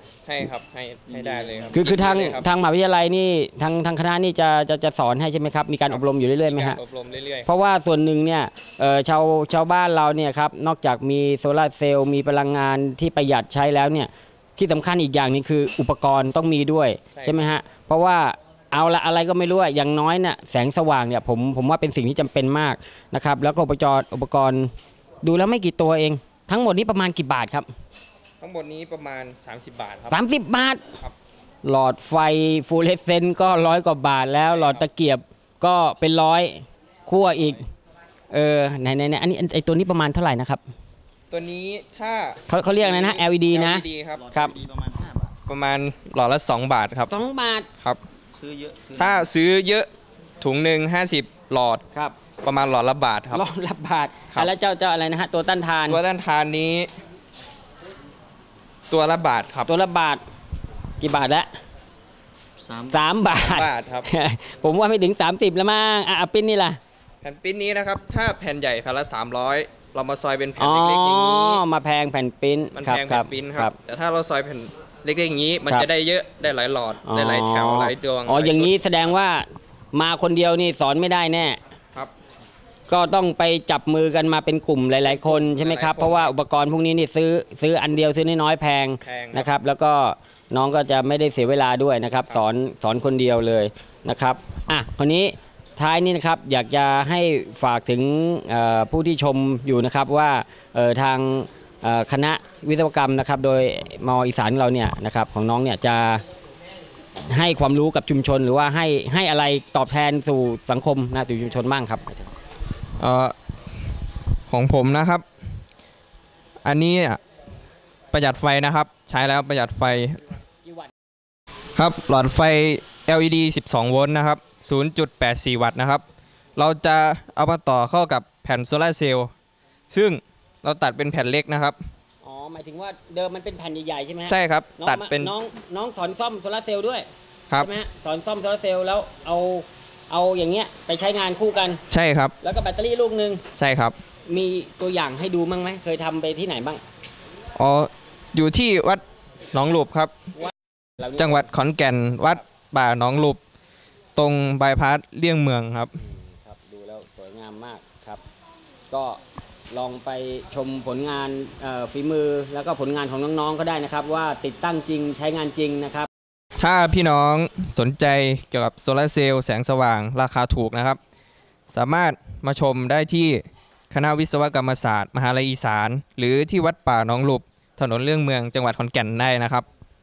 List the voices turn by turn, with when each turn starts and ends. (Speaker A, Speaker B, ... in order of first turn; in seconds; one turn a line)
Speaker A: 0.2-2.5
Speaker B: 1.1-1.6
Speaker C: 1.7-6.8
Speaker A: 6.5-7.5
Speaker C: 7.4-24.7
Speaker A: 17.1-17.5
Speaker C: 25.2-27.7
Speaker A: 28.4-30.2
Speaker C: 30.1-30.9
Speaker C: 31.6-37.6
Speaker A: 34.4-34.9
Speaker C: 38.3-40.6
Speaker A: 41.3-44.2
Speaker C: 42.5-44.6
Speaker B: 44.2-45.3
Speaker A: 45.5-47.1
Speaker C: 47.1-47.7
Speaker B: 48.3-49.2
Speaker A: 49.0-49.9
Speaker A: 50.4-51.8
Speaker A: 52.4-53.4
Speaker C: 53.3-56.0
Speaker A: 55.9-56.9
Speaker A: 58.9-59.7
Speaker C: 59.6-60.2
Speaker C: 61.0-61.5
Speaker B: 62.6-63.0
Speaker C: 62.9-66.8
Speaker A: 63.3-64.1
Speaker A: 67.2-71.6
Speaker C: 70.6-73.8
Speaker A: 72.7-79.1
Speaker C: 77.0-81.6
Speaker C: 82.9-106.2
Speaker A: 85.0-86.3
Speaker A: 89.0-89.5
Speaker C: 107.2-112.3
Speaker A: 113.0-113.3
Speaker A: 114.5-115.2
Speaker A: 116.6-117.2
Speaker A: 118.1-120.2
Speaker C: 120.6-120.9
Speaker A: 121.8-126.0
Speaker A: 126.6-129.3
Speaker A: 129.9-131.8
Speaker C: 132.2-141.8
Speaker A: 134.3-135.3
Speaker A: 141.9-142.3
Speaker C: 142.4-143.4
Speaker A: 143.6-144.0
Speaker C: 144.2-146.8
Speaker A: 147.6-149.0
Speaker A: 149.5-150.1
Speaker C: 150.4-151.5
Speaker A: 151.2-153.4
Speaker A: 154.2-155.9
Speaker C: 156.0-158.2
Speaker C: 158.9-166.1
Speaker A: 166.6-171.0
Speaker A: 171.7-179.6